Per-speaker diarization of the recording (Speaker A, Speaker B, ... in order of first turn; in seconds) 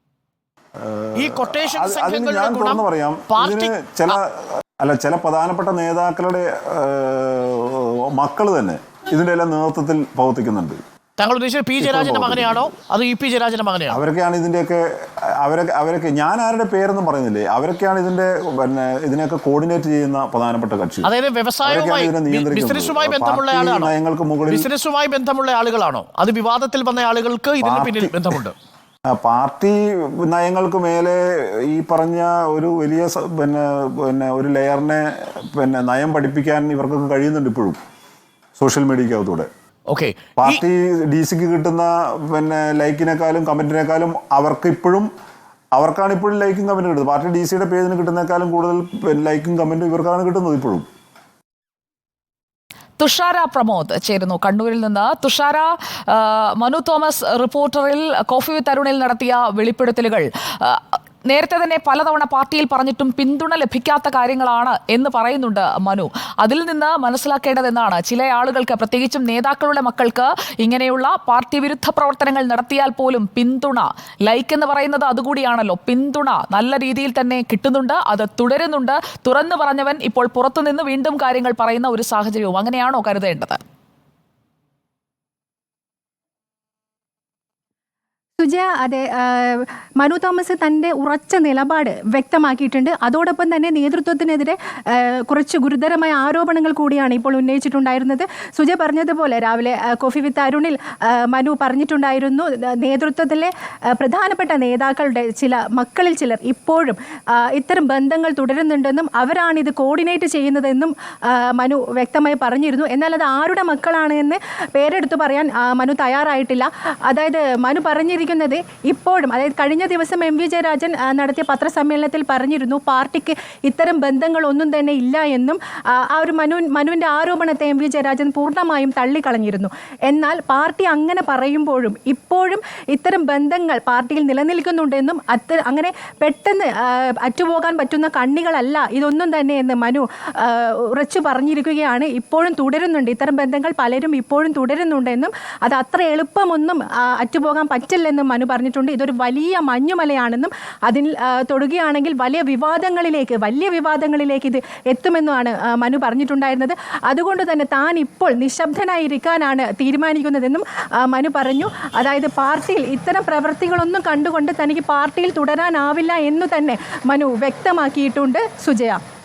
Speaker A: 0.8-10.8, 11.8-12.7, 13.9-14.8, 15.4-21.1, 21.6-24.7, 27.6-28.2, 29.1-37.8, 38.6-39.5, 40.4-45.1, 45.8-50.9
Speaker B: 1.2-3.7, 11.2-14.0, 21.0-23.9, 24.5-28.6, 39.9-40.6
Speaker C: 53.0-83.6
Speaker D: 88.4-125.6, 126.1-169.0